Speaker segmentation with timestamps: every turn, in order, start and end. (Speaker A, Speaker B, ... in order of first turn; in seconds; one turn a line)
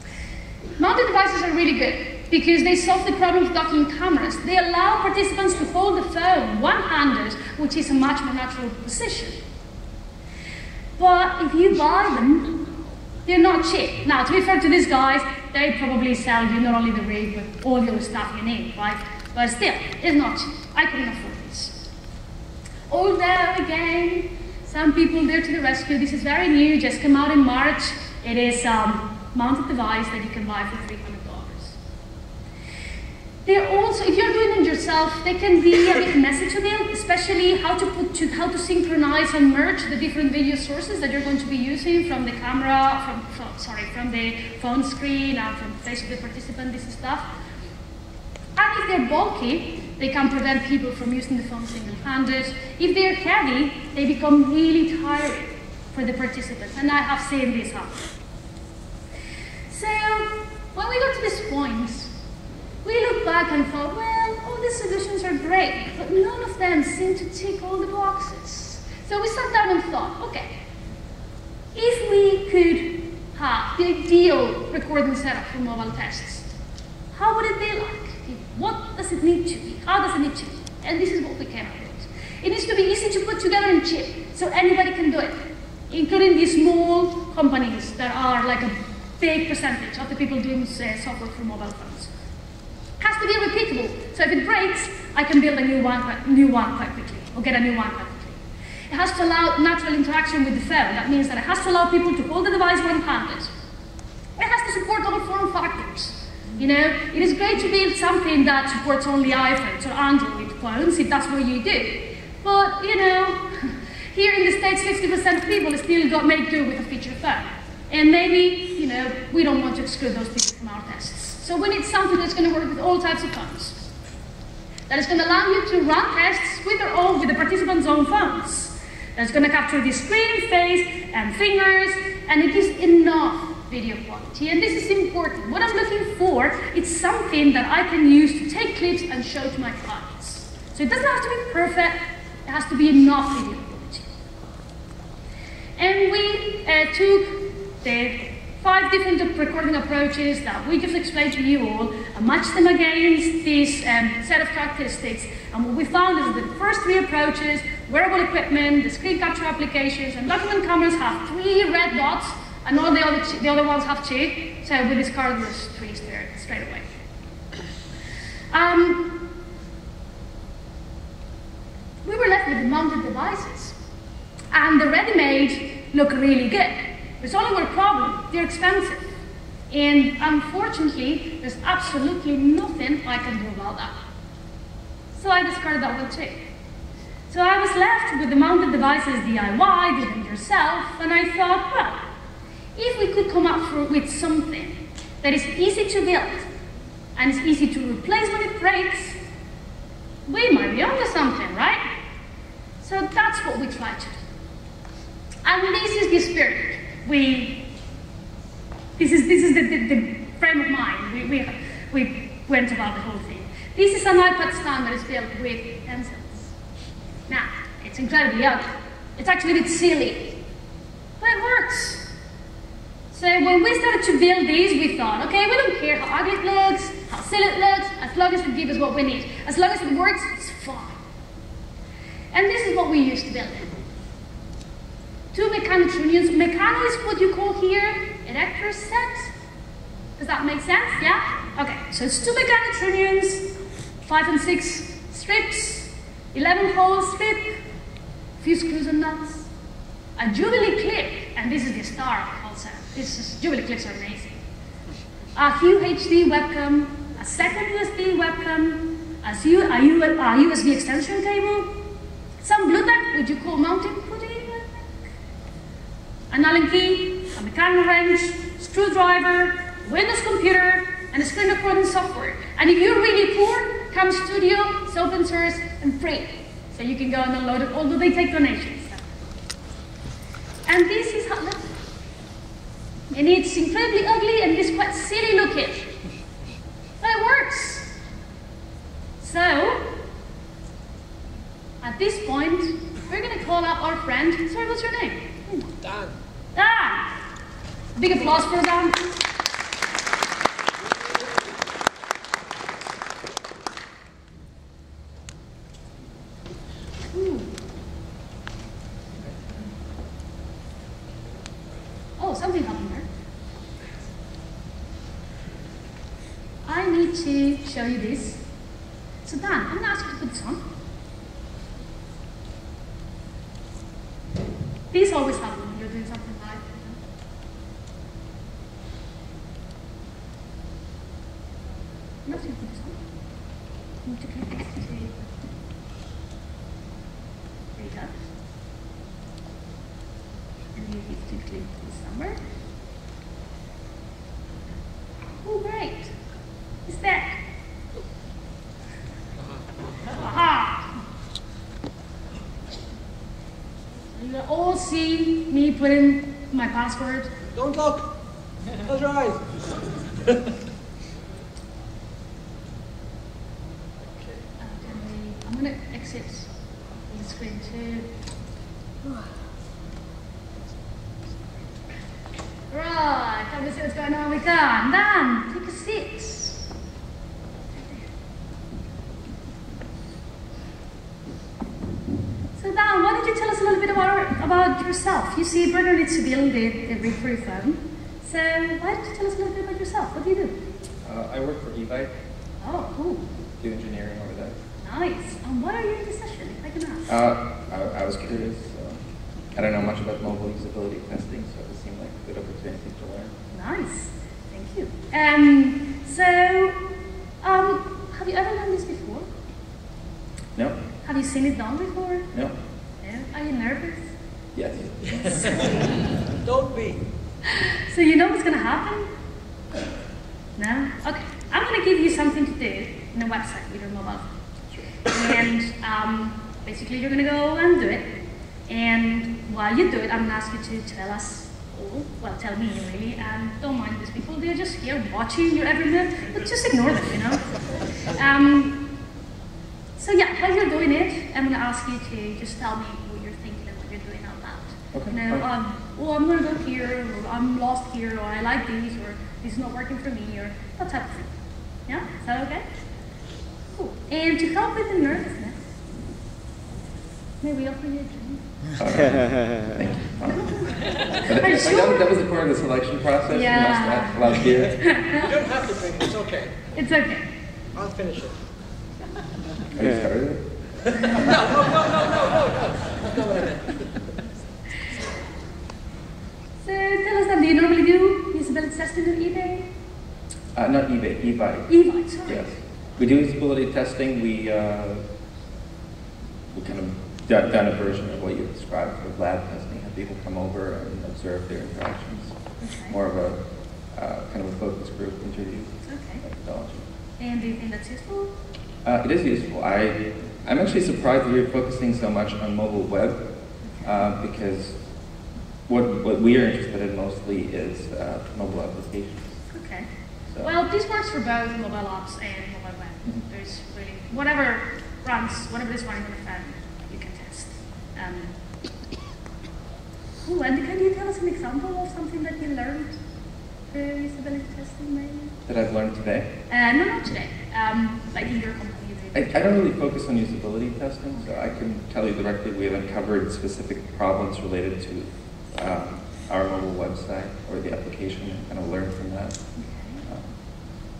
Speaker A: 0.8-9.4
Speaker A: 11.0-12.6
Speaker A: 13.2-21.8
Speaker A: 22.9-31.8
Speaker A: 33.4-47.3
Speaker A: 48.5-58.1
Speaker A: 59.7-62.1
Speaker A: 62.8-70.5
Speaker A: 71.7-76.5
Speaker A: 77.1-85.4
Speaker A: 85.9-92.1
Speaker A: 93.0-103.5
Speaker A: 104.4-123.8
Speaker A: 124.9-144.1
Speaker A: 145.8-166.8
Speaker A: 168.5-169.2
Speaker A: 172.0-173.7
Speaker A: 174.5-179.1
Speaker A: 179.7-183.9
Speaker A: 185.2-186.4
Speaker A: 187.3-192.0
Speaker A: 192.8-196.5
Speaker A: 197.2-199.2
Speaker A: 200.3-201.8
Speaker A: 202.8-204.2
Speaker A: 205.4-207.6
Speaker A: 209.0-216.5
Speaker A: 217.3-220.4
Speaker A: 221.2-222.1
Speaker A: 223.1-231.0
Speaker A: 232.3-233.7
Speaker A: 235.3-239.3
Speaker A: 240.2-243.5
Speaker A: 244.0-247.6
Speaker A: 248.4-249.5
Speaker A: 250.2-254.3
Speaker A: 255.3-261.8
Speaker A: 262.4-265.0
Speaker A: 266.3-279.1
Speaker A: 280.6-281.8
Speaker A: 283.1-285.9
Speaker A: 287.0-287.9
Speaker A: 289.2-289.9
Speaker A: 291.8-295.7
Speaker B: 295.8-296.1
Speaker A: 296.5-297.1
Speaker A: 297.9-299.1
Speaker A: 307.1-307.5
Speaker A: 312.2-313.1
Speaker A: 316.6-318.4
Speaker A: 319.2-320.6
Speaker A: 324.9-327.0
Speaker A: 332.2-333.0
Speaker A: 334.0-335.3
Speaker A: 337.7-338.1
Speaker A: 340.7-342.4
Speaker A: 345.4-346.1
Speaker A: 346.9-347.4
Speaker A: 350.1-350.9
Speaker A: 354.1-357.3
Speaker B: 357.5-358.1
Speaker B: 358.8-359.6
Speaker A: 364.6-366.5
Speaker A: 367.1-368.1
Speaker A: 372.7-376.6
Speaker A: 377.8-378.0
Speaker A: 382.6-390.6
Speaker C: 391.0-392.1
Speaker A: 392.6-393.2
Speaker C: 393.6-394.6
Speaker A: 394.8-397.1
Speaker C: 397.1-399.0
Speaker C: 399.5-403.3
Speaker A: 403.5-406.8
Speaker A: 407.4-409.3
Speaker A: 411.0-412.3
Speaker A: 413.0-414.1
Speaker C: 414.5-415.7
Speaker B: 415.0-417.0
Speaker A: 417.5-419.1
Speaker A: 420.6-424.3
Speaker A: 425.1-428.1
Speaker A: 428.7-437.4
Speaker A: 438.0-438.8
Speaker A: 440.0-451.3
Speaker C: 444.9-445.4
Speaker A: 451.9-452.6
Speaker A: 453.8-455.6
Speaker A: 457.4-458.4
Speaker C: 458.8-465.0
Speaker A: 460.3-462.1
Speaker A: 463.3-465.3
Speaker B: 465.1-466.6
Speaker A: 466.7-467.2
Speaker B: 467.7-468.4
Speaker C: 469.7-470.4
Speaker B: 470.8-473.8
Speaker A: 476.6-479.6
Speaker C: 480.5-481.7
Speaker A: 481.7-482.4
Speaker C: 482.2-485.0
Speaker C: 486.5-492.4
Speaker A: 492.6-493.0
Speaker C: 492.9-493.4
Speaker C: 493.9-496.8
Speaker A: 495.8-496.2
Speaker A: 497.2-498.3
Speaker C: 498.8-503.2
Speaker A: 503.6-503.9
Speaker C: 503.8-504.8
Speaker C: 505.7-509.4
Speaker A: 509.5-509.9
Speaker A: 510.4-518.3
Speaker A: 520.2-523.0
Speaker A: 523.7-525.3
Speaker C: 525.5-526.3
Speaker A: 526.5-529.7
Speaker C: 529.1-539.4
Speaker A: 531.1-531.4
Speaker A: 539.6-540.0
Speaker C: 540.0-540.3